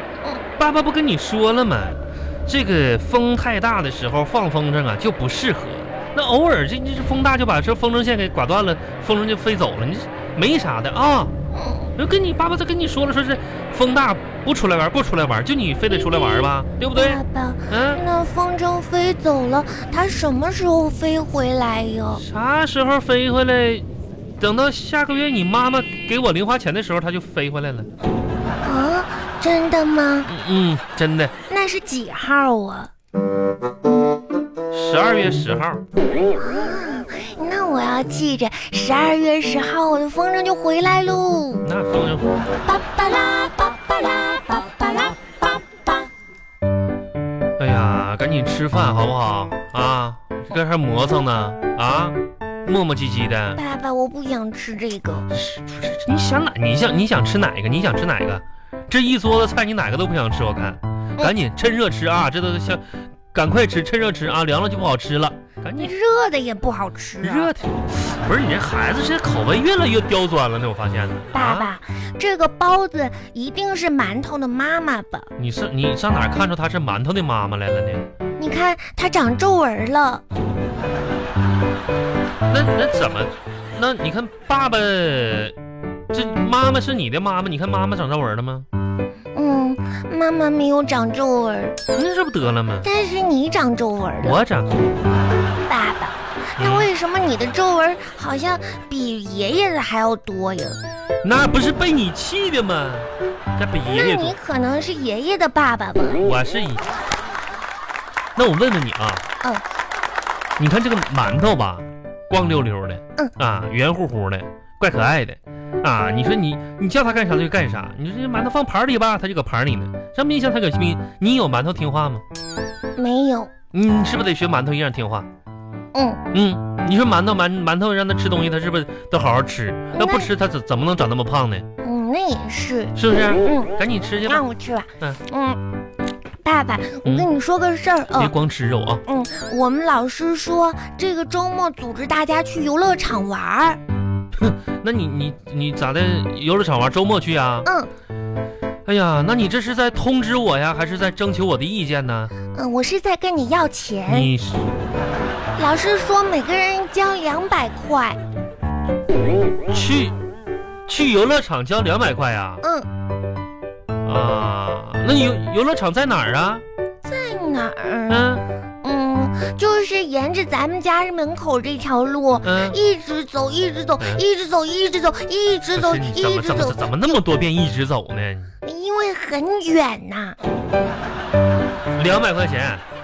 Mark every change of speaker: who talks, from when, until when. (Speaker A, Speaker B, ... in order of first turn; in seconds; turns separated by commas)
Speaker A: 0.6-11.3, Speaker B: 11.5-11.9, Speaker A: 12.0-18.0, Speaker B: 16.0-16.3, Speaker B: 16.9-22.2, Speaker A: 22.2-23.9, Speaker A: 24.4-27.9, Speaker B: 28.6-30.3, Speaker A: 30.2-31.3, Speaker B: 31.5-32.9, Speaker A: 34.7-35.8, Speaker B: 36.3-41.7, Speaker A: 41.6-42.4, Speaker B: 42.6-45.3, Speaker A: 47.6-53.6, Speaker B: 53.5-55.3, Speaker A: 55.3-65.9, Speaker B: 65.7-67.5, Speaker A: 67.2-71.7, Speaker B: 71.3-75.3, Speaker A: 75.4-78.0, Speaker B: 78.4-80.2, Speaker A: 82.5-85.5, Speaker A: 86.1-88.7, Speaker B: 89.3-91.8, Speaker A: 91.9-92.9, Speaker B: 92.8-94.4, Speaker A: 94.2-94.8, Speaker B: 95.7-100.8, Speaker A: 96.6-96.9, Speaker A: 101.2-104.3, Speaker B: 103.9-106.2, Speaker A: 106.2-106.9, Speaker A: 108.3-109.2, Speaker A: 110.6-122.2, Speaker B: 123.0-123.5, Speaker A: 123.7-125.3, Speaker B: 125.9-126.2, Speaker A: 126.3-131.6, Speaker B: 129.9-130.3, Speaker B: 131.8-135.6, Speaker A: 132.9-134.4, Speaker B: 136.4-138.3, Speaker A: 138.2-139.0, Speaker B: 139.1-143.8, Speaker A: 144.3-147.7, Speaker B: 147.6-147.9, Speaker A: 148.8-152.3, Speaker B: 152.5-154.3, Speaker A: 154.1-154.7, Speaker B: 155.6-158.2, Speaker A: 159.7-160.2, Speaker A: 160.9-162.6, Speaker B: 162.6-162.9, Speaker A: 164.0-166.6, Speaker B: 167.0-168.3, Speaker A: 168.1-168.4, Speaker B: 168.8-177.2, Speaker A: 172.4-172.8, Speaker A: 175.8-178.5, Speaker B: 178.6-180.4, Speaker A: 181.9-182.8